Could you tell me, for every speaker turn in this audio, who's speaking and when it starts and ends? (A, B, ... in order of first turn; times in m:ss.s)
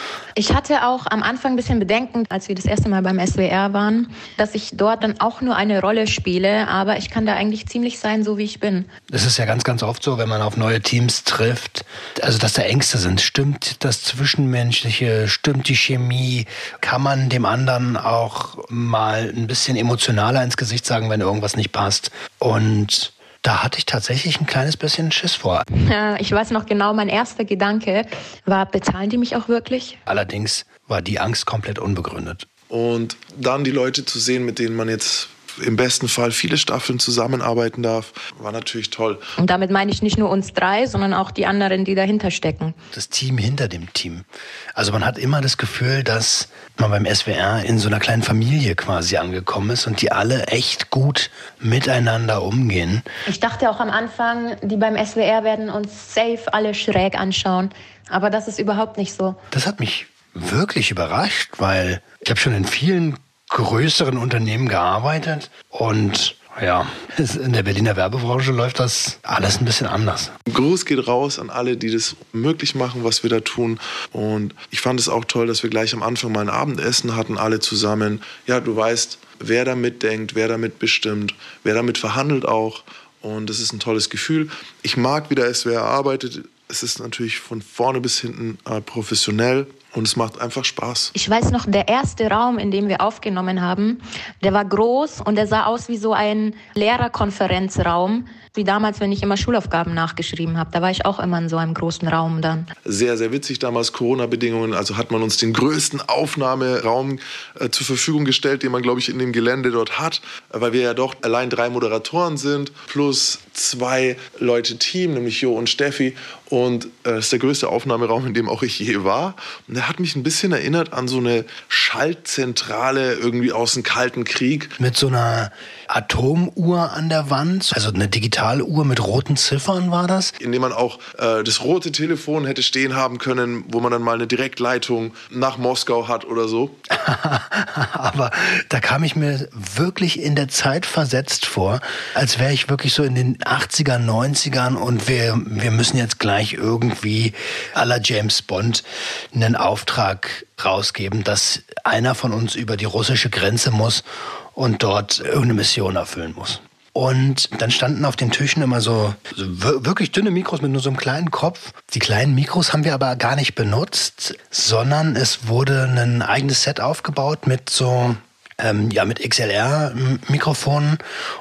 0:00.4-0:08.9 A
0:09.1-0:25.6 B
0:25.7-0:30.0 A
0:30.1-0:32.5 B
0:32.7-0:39.2 C
0:39.4-0:42.8 A
0:42.9-0:53.0 B
0:53.3-0:59.4 A
0:59.5-1:10.3 B
1:10.5-1:31.1 C
1:31.1-1:42.7 A
1:42.8-2:04.7 C
2:04.8-2:10.3 B
2:10.4-2:16.8 C
2:16.9-2:51.0 B